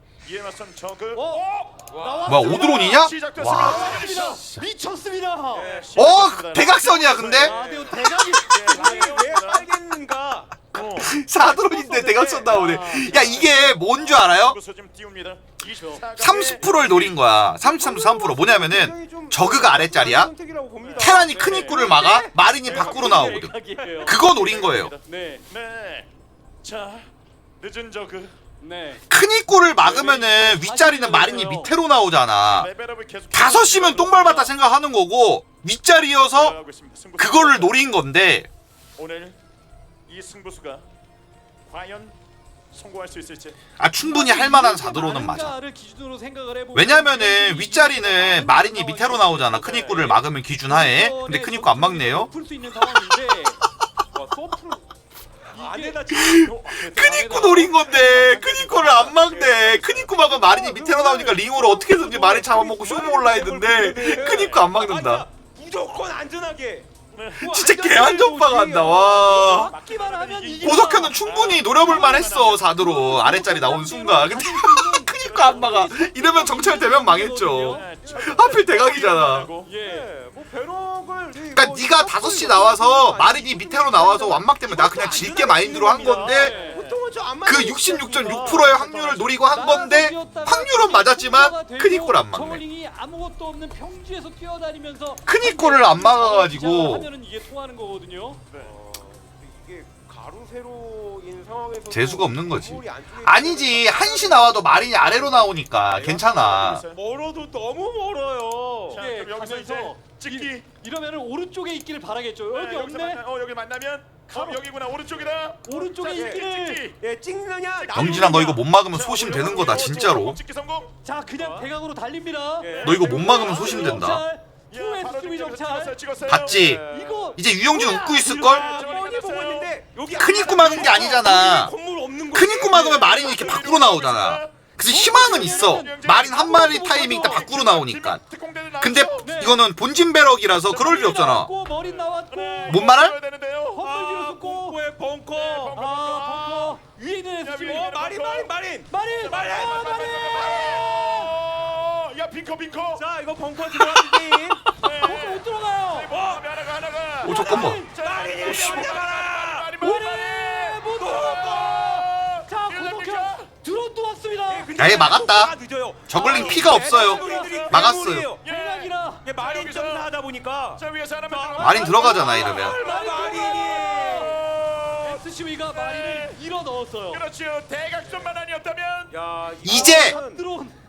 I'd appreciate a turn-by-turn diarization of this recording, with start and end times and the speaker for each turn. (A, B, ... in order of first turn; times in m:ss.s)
0:00.2-0:04.5 A
0:01.1-0:03.1 B
0:02.2-0:04.0 C
0:03.6-0:05.7 B
0:05.5-0:06.0 D
0:05.7-0:07.6 A
0:06.0-0:07.5 C
0:07.4-0:09.2 B
0:07.4-0:08.0 D
0:08.4-0:09.7 A
0:08.6-0:10.6 D
0:10.7-0:11.2 A
0:10.7-0:14.6 C
0:11.4-0:12.6 D
0:11.9-0:13.8 B
0:13.9-0:17.2 A
0:15.7-0:16.0 B
0:16.2-0:20.3 C
0:17.6-0:24.2 D
0:20.8-0:21.3 A
0:21.0-0:24.9 C
0:21.2-0:21.9 B
0:22.6-0:23.4 A
0:23.4-0:24.2 B
0:24.1-0:26.1 A
0:25.1-0:25.4 B
0:26.6-0:27.1 A
0:27.6-0:28.4 A
0:28.6-0:29.0 B
0:29.1-0:32.7 C
0:29.8-0:30.6 A
0:30.2-0:31.7 B
0:32.5-0:34.5 A
0:33.3-0:36.6 C
0:36.3-0:37.8 A
0:37.2-0:38.5 C
0:39.0-0:39.4 A
0:40.1-0:40.8 A
0:41.7-0:42.2 A
0:42.7-0:43.6 A
0:43.8-0:45.6 C
0:44.0-0:53.6 B
0:46.8-0:52.3 C
0:54.1-0:54.9 D
0:55.5-0:58.2 D
0:55.5-0:56.2 B
0:56.1-1:05.2 C
0:56.7-0:58.5 B
0:58.2-0:59.1 A
0:58.9-1:09.7 D
1:04.2-1:04.7 A
1:07.1-1:07.5 A
1:07.4-1:09.7 C
1:08.8-1:17.9 B
1:09.5-1:13.4 A
1:10.6-1:19.5 C
1:15.2-1:15.9 A
1:16.9-1:19.7 A
1:18.0-1:18.3 D
1:19.6-1:20.1 B
1:19.8-1:29.7 D
1:21.5-1:26.6 C
1:25.0-1:27.0 A
1:25.8-1:26.9 B
1:27.4-1:32.6 C
1:28.4-1:28.6 B
1:29.5-1:38.5 B
1:35.3-1:37.1 C
1:38.6-1:45.3 D
1:41.9-1:46.8 C
1:46.0-1:46.2 D
1:46.0-1:47.0 A
1:46.9-1:49.0 D
1:48.9-1:50.7 A
1:48.9-1:53.2 B
1:52.5-1:57.0 A
1:54.2-1:54.7 B
1:55.6-1:56.9 B
1:56.1-1:56.4 D
1:57.0-1:58.5 D
1:57.8-2:01.7 A
1:58.0-2:00.4 C
2:01.0-2:08.7 B
2:02.6-2:03.0 D
2:02.7-2:04.1 A
2:02.8-2:04.2 C
2:04.7-2:07.4 A
2:06.3-2:06.8 C
2:06.6-2:07.0 D
2:07.4-2:08.7 C
2:07.7-2:13.4 D
2:08.4-2:09.7 A
2:10.2-2:11.7 C
2:12.3-2:18.2 C
2:12.7-2:19.4 A
2:14.9-2:17.4 B
2:18.8-2:21.5 C
2:19.2-2:19.6 B
2:20.7-2:21.0 A
2:20.8-2:23.0 B
2:21.8-2:23.9 A
2:22.7-2:23.2 C
2:23.7-2:24.8 B
2:23.8-2:25.8 D
2:25.3-2:26.8 A
2:25.7-2:27.8 B
2:27.4-2:28.5 A
2:27.6-2:30.6 D
2:28.9-2:31.4 B
2:29.2-2:33.0 A
2:32.9-2:34.6 D
2:33.7-2:36.2 B
2:34.8-2:35.4 A
2:36.0-2:43.5 A
2:36.1-2:36.4 D
2:37.2-2:37.8 C
2:37.2-2:39.8 D
2:37.5-2:38.0 B
2:38.4-2:38.9 C
2:39.8-2:44.8 B
2:40.9-2:41.8 D
2:44.5-2:48.5 D
2:44.8-2:45.5 C
2:46.1-2:48.3 C
2:46.2-2:47.7 B
2:47.4-2:47.8 A
2:48.4-2:50.1 A
2:48.4-2:49.3 B
2:49.2-2:54.8 D
2:50.8-2:56.4 A
2:51.6-2:52.8 C
2:51.7-2:54.4 B
2:55.0-2:57.2 B
2:57.1-2:59.1 A
2:59.1-3:00.4 D
2:59.6-3:00.2 C
2:59.9-3:00.8 B